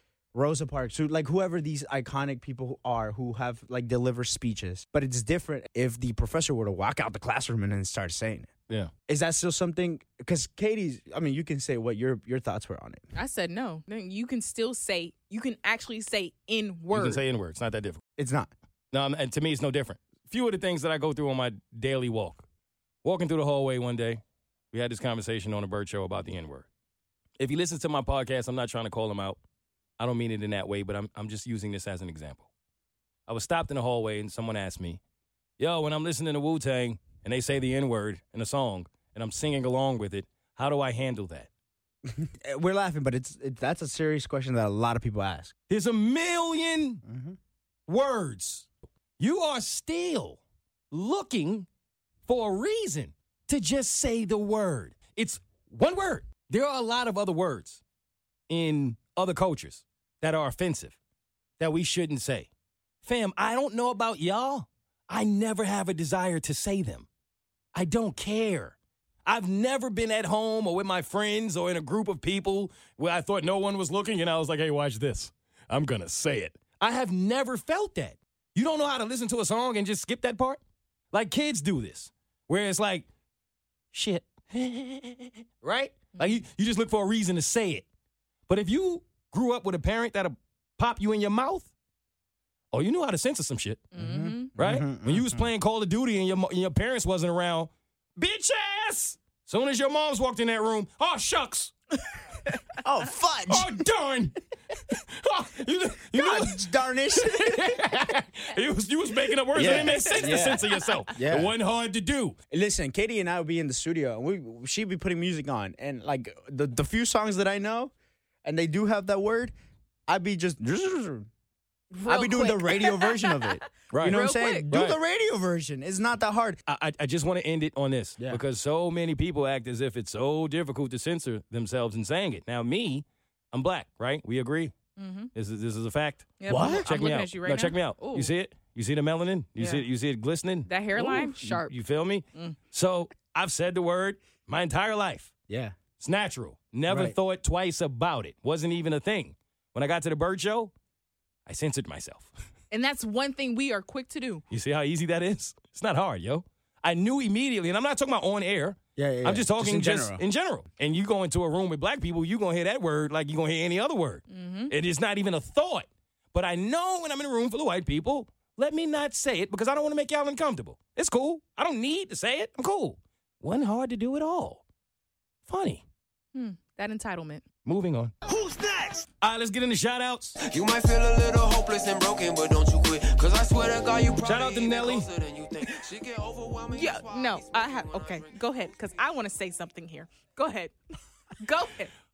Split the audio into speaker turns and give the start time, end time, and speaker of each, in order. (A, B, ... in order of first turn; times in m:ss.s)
0:00.3-0:08.5 A
0:09.1-0:13.0 A
0:13.1-0:17.2 B
0:16.9-0:18.0 C
0:18.2-0:18.5 A
0:18.9-0:22.4 C
0:23.0-0:26.7 C
0:27.4-0:29.4 C
0:30.0-0:32.5 C
0:33.3-0:35.0 C
0:35.6-0:41.5 C
0:42.0-0:45.5 A
0:45.7-0:47.0 C
0:47.0-0:47.4 A
0:47.9-0:48.7 C
0:49.2-0:50.4 C
0:50.9-0:51.7 C
0:52.2-0:57.8 C
0:58.5-1:00.9 C
1:01.6-1:02.5 C
1:03.0-1:07.1 C
1:07.7-1:20.6 C
1:21.1-1:23.1 C
1:23.9-1:27.8 C
1:28.5-1:31.7 C
1:32.7-1:33.9 C
1:33.9-1:34.5 B
1:33.9-1:35.4 A
1:34.6-1:41.7 C
1:42.8-1:43.8 A
1:43.5-1:52.4 C
1:46.1-1:47.8 A
1:49.5-1:51.5 A
1:50.4-1:50.9 B
1:52.5-1:57.9 A
1:58.4-1:59.5 A
2:00.1-2:01.3 A
2:01.9-2:04.6 B
2:02.0-2:06.6 A
2:03.9-2:05.0 C
2:06.7-2:14.7 C
2:15.0-2:15.3 B
2:15.3-2:25.3 C
2:16.4-2:18.3 B
2:16.5-2:16.8 A
2:19.6-2:19.8 B
2:20.7-2:21.8 B
2:25.5-2:25.8 A
2:26.0-2:30.7 C
2:26.9-2:27.2 A
2:31.4-2:32.3 C
2:32.7-2:34.4 B
2:34.5-2:54.6 C
2:39.0-2:40.2 A
2:44.3-2:44.7 B
2:55.5-2:55.8 C
2:56.3-2:57.4 B
2:57.6-2:58.1 C
2:58.2-2:59.1 D
2:59.2-3:00.4 C
3:00.4-3:08.4 D
3:04.2-3:05.1 C
3:06.7-3:10.7 B
3:11.4-3:11.9 B